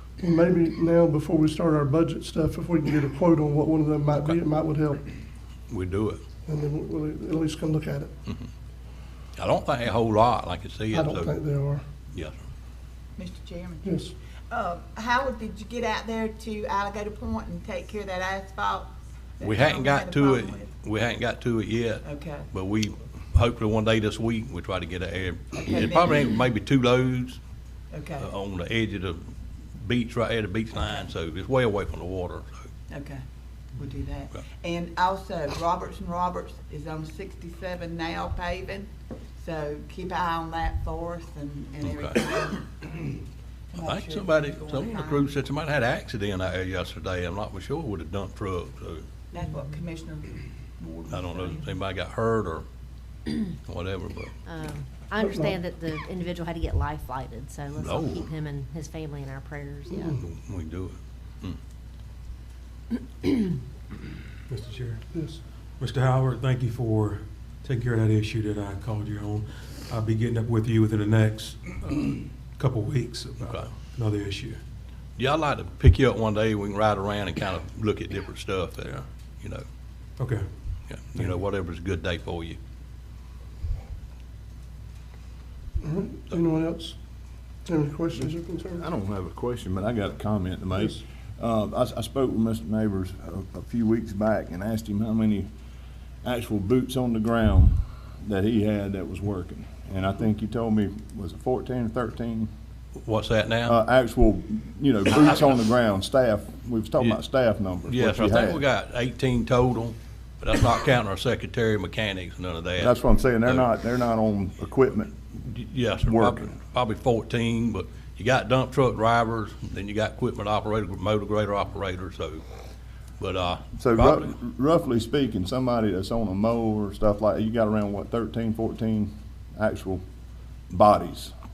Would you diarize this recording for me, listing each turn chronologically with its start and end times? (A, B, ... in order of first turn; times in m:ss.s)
0:00.2-0:05.0 A
0:05.7-0:06.2 B
0:06.4-0:08.1 A
0:09.4-0:11.3 B
0:10.9-0:11.8 A
0:13.2-0:14.0 C
0:13.8-0:14.1 A
0:14.5-0:20.7 C
0:19.4-0:27.4 B
0:22.0-0:22.5 C
0:25.5-0:26.2 C
0:27.9-0:28.3 C
0:28.2-0:29.2 B
0:29.8-0:32.5 B
0:32.9-0:33.2 C
0:33.7-0:38.9 C
0:39.4-0:42.9 C
0:41.8-0:42.2 B
0:43.7-0:45.2 C
0:43.8-0:49.0 B
0:49.3-0:51.7 C
0:51.1-0:52.6 B
0:53.5-0:54.3 B
0:54.4-1:00.1 D
0:55.2-0:55.5 A
0:57.8-0:58.3 B
0:59.9-1:00.2 A
1:00.2-1:01.6 B
1:04.5-1:05.0 E
1:05.1-1:05.4 A
1:05.8-1:14.6 E
1:13.4-1:13.7 B
1:15.2-1:19.6 B
1:20.2-1:20.5 E
1:20.9-1:22.6 B
1:25.8-1:27.0 A
1:27.6-1:28.8 A
1:28.7-1:35.5 F
1:36.2-1:42.5 F
1:43.0-1:43.8 B
1:43.7-1:48.6 F
1:47.9-1:52.9 B
1:52.8-1:55.1 F
1:55.4-2:02.4 B
1:56.0-1:56.5 F
2:03.2-2:04.4 B
2:03.8-2:10.0 F
2:10.7-2:11.3 F